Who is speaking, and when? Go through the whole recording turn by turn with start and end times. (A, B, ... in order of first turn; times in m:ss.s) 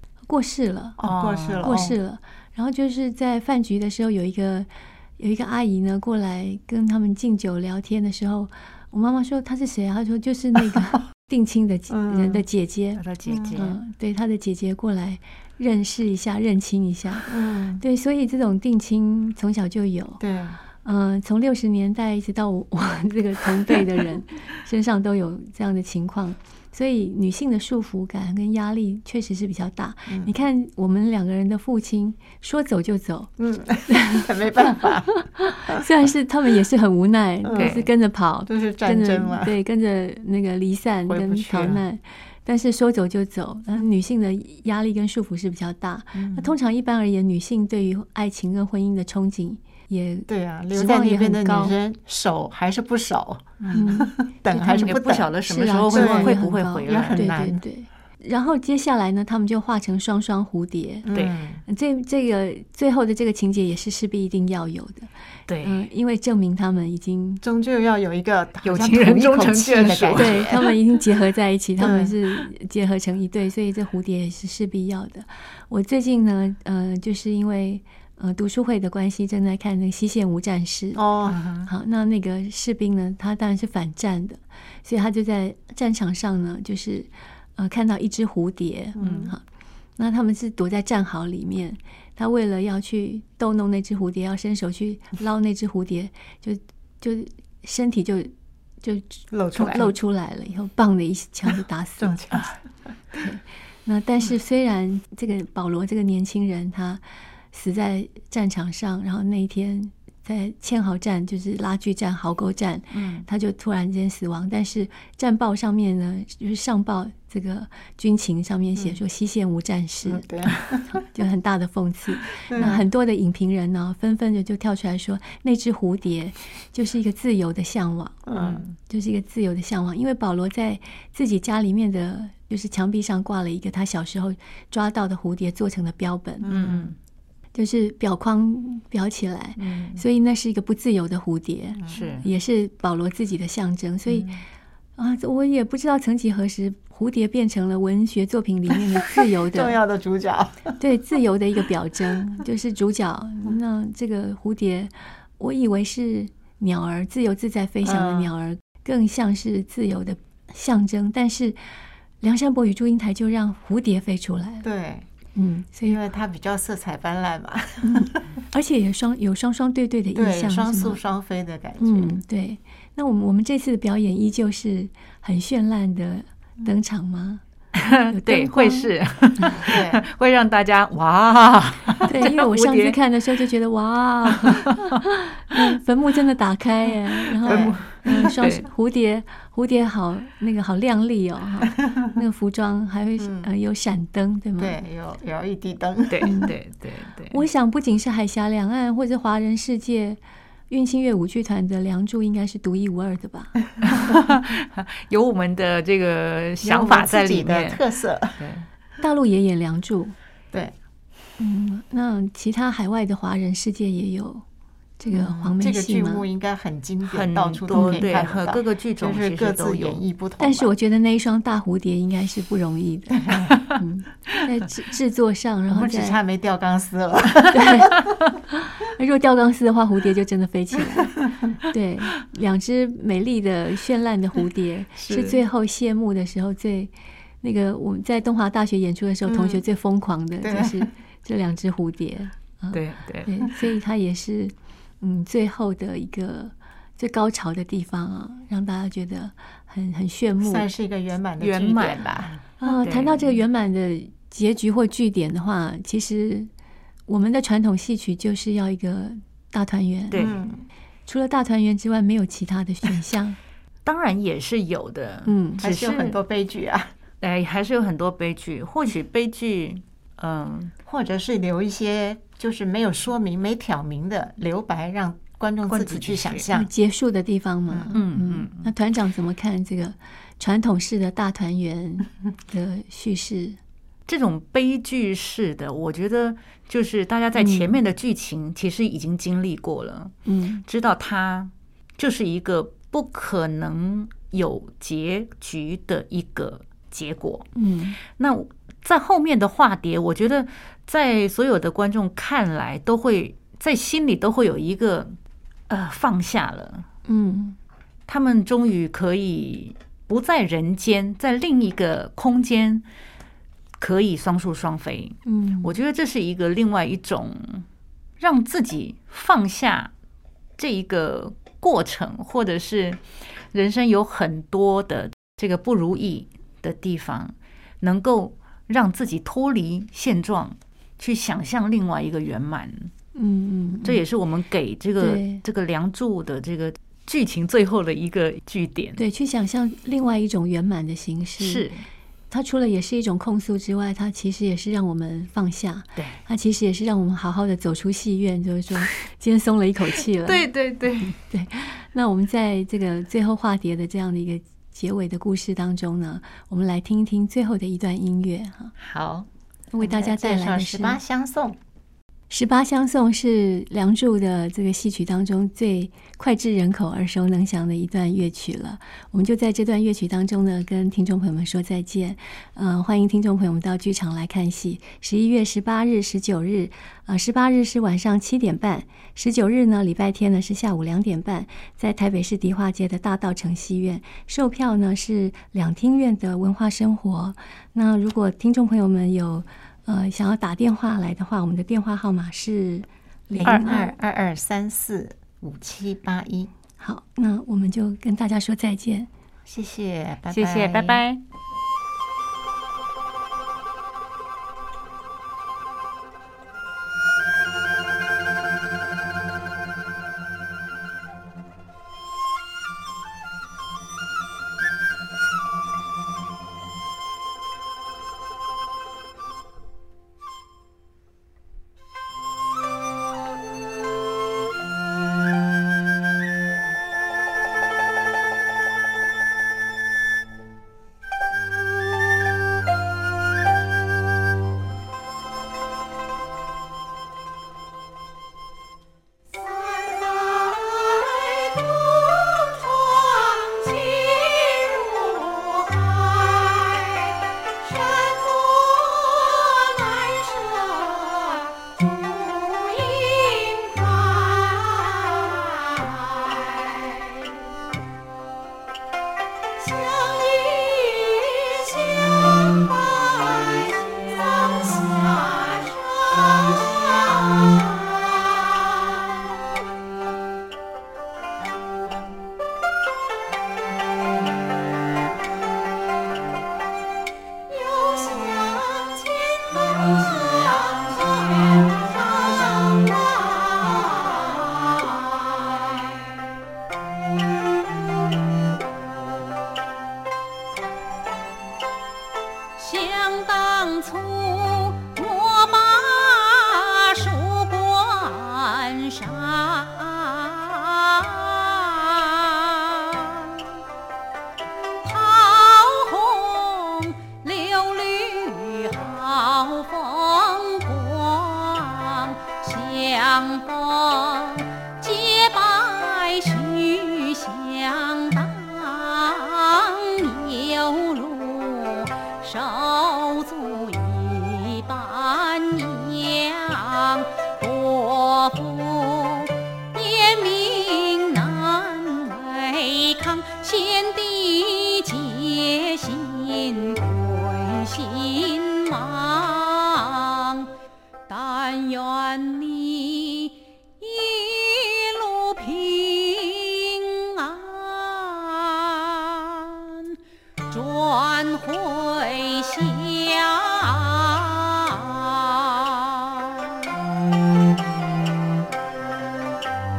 0:00.3-0:01.0 A
0:01.0-0:02.0 B
0:01.0-0:01.7 C
0:01.6-0:13.0 A
0:11.9-0:12.4 B
0:13.0-0:13.8 C
0:13.2-0:13.6 B
0:13.5-0:20.2 A
0:17.3-0:17.8 B
0:20.2-0:20.6 B
0:20.8-0:33.3 A
0:33.4-0:35.8 B
0:33.9-0:51.7 A
0:37.4-0:37.8 B
0:37.6-0:37.8 C
0:38.4-0:39.5 B
0:41.1-0:41.8 B
0:46.2-0:46.5 B
0:50.3-0:55.3 B
0:53.6-0:54.0 C
0:53.7-1:01.1 A
0:54.7-0:57.2 C
0:55.9-0:57.6 B
1:01.0-1:01.6 B
1:01.6-1:05.1 A
1:05.5-1:05.8 C
1:05.6-1:07.4 A
1:07.4-1:10.7 B
1:08.6-1:10.7 C
1:10.1-1:21.0 A
1:11.8-1:12.1 B
1:20.9-1:21.4 B
1:21.3-1:21.7 C
1:21.6-1:29.4 A
1:29.0-1:29.3 B
1:29.0-1:29.3 C
1:30.0-1:42.1 A
1:39.3-1:39.9 B
1:42.0-1:42.6 B
1:43.1-2:00.2 A
1:52.9-1:53.2 C
2:00.0-2:01.0 B
2:01.0-2:08.2 A
2:02.4-2:02.8 B
2:02.6-2:02.8 C
2:08.2-2:08.6 B
2:08.4-2:08.7 C
2:08.8-2:16.7 A
2:16.4-2:16.9 B
2:16.4-2:17.0 C
2:17.5-2:24.3 A
2:19.6-2:20.0 C
2:21.9-2:22.3 C
2:24.1-2:24.4 C
2:25.0-2:29.8 A
2:29.4-2:30.8 B
2:30.8-2:41.6 A
2:37.8-2:38.3 B
2:42.2-2:44.7 A
2:44.6-2:45.0 B
2:45.3-2:46.0 A
2:45.8-2:48.2 B
2:47.8-2:51.0 A
2:50.1-2:52.2 B
2:51.8-2:57.4 A
2:57.7-3:03.0 C
2:58.1-2:59.6 A
2:59.6-3:00.0 B
3:02.0-3:14.8 A
3:04.3-3:05.0 C
3:07.2-3:08.7 C
3:07.4-3:08.3 B
3:13.2-3:13.5 B
3:14.6-3:16.3 B
3:16.1-3:17.4 C
3:16.2-3:16.5 A
3:17.3-3:20.2 A
3:20.7-3:23.6 A
3:23.8-3:27.8 C
3:26.6-3:28.4 B
3:28.4-3:28.6 C
3:29.0-3:30.1 A
3:31.4-3:34.4 A
3:35.0-3:36.2 A
3:35.1-3:40.7 B
3:37.0-3:40.0 C
3:37.7-3:38.0 A
3:40.4-3:46.2 A
3:43.1-3:43.5 B
3:43.5-3:43.8 C
3:45.7-3:48.0 B
3:47.5-3:56.9 A
3:55.0-3:55.4 C
3:57.4-4:10.7 A
3:59.2-3:59.6 B
4:00.4-4:00.9 B
4:02.7-4:03.3 C
4:10.4-4:12.3 B
4:11.4-4:13.4 C
4:12.6-4:16.5 A
4:17.1-4:20.3 A
4:20.1-4:20.4 C
4:20.2-4:20.6 B
4:21.1-4:23.4 A
4:23.8-4:26.2 C
4:25.2-4:25.6 A
4:25.6-4:26.9 B
4:27.2-4:30.7 C
4:30.8-4:36.7 B
4:35.6-4:36.5 C
4:36.5-4:43.6 A
4:37.7-4:37.9 B
4:37.9-4:38.7 C
4:44.1-4:50.1 C
4:47.3-4:47.8 A
4:50.2-4:50.6 A
4:50.6-4:57.5 C
4:57.6-4:58.0 A
4:58.0-5:05.1 C
5:05.7-5:06.8 C
5:07.0-5:07.6 A
5:08.1-5:12.8 C
5:13.8-5:17.6 C
5:15.2-5:15.7 A
5:18.2-5:19.9 C
5:20.6-5:32.9 C
5:33.1-5:34.0 A
5:33.8-5:39.0 C
5:35.0-5:35.4 A
5:39.0-5:41.7 A
5:41.4-5:41.8 C
5:42.3-5:50.5 A
5:50.2-5:51.2 C
5:51.2-5:58.7 A
5:58.9-5:59.2 B
5:59.7-6:01.0 A
5:59.8-6:01.6 B
6:02.3-6:33.9 A
6:33.4-6:33.8 C
6:33.4-6:36.5 B
6:36.8-6:39.1 A
6:39.5-6:41.0 B
6:40.3-6:41.2 C
7:19.3-7:37.5 D
7:39.6-7:49.3 D
7:57.5-8:06.0 D
8:12.6-8:23.5 D
8:24.8-9:00.5 D
9:01.1-9:10.0 D
9:10.5-9:16.6 D